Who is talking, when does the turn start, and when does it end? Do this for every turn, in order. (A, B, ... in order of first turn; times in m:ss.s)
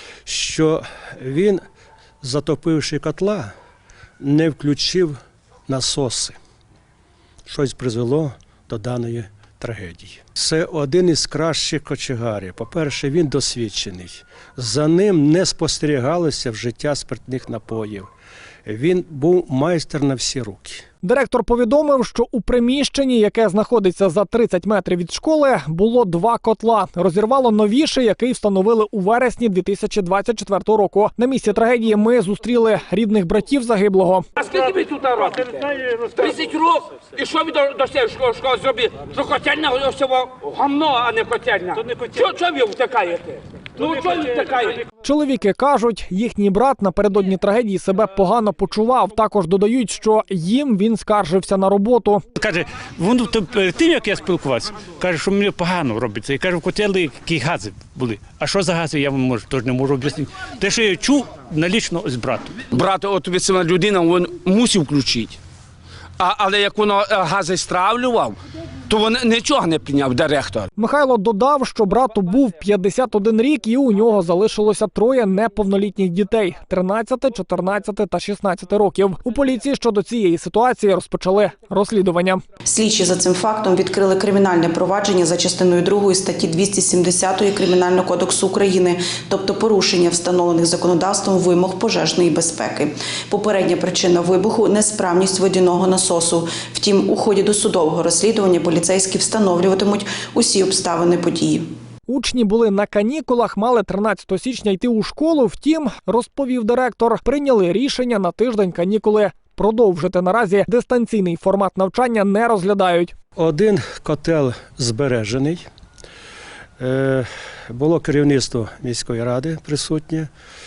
0:00.2-0:01.6 A
0:02.2-0:03.5 A
0:04.2-0:05.2 A
0:05.7-0:06.4 A
0:07.5-0:18.1 A
0:18.6-0:20.8 A
0:21.0-0:34.3 B
0:34.4-0:44.8 C
0:45.0-0:52.2 B
0:52.4-1:02.6 D
1:02.7-1:05.4 C
1:06.2-1:08.4 C
1:08.9-1:10.7 C
1:10.8-1:22.4 B
1:22.6-1:41.7 E
1:42.1-1:53.1 B
1:53.4-1:55.6 A
1:56.8-2:00.3 A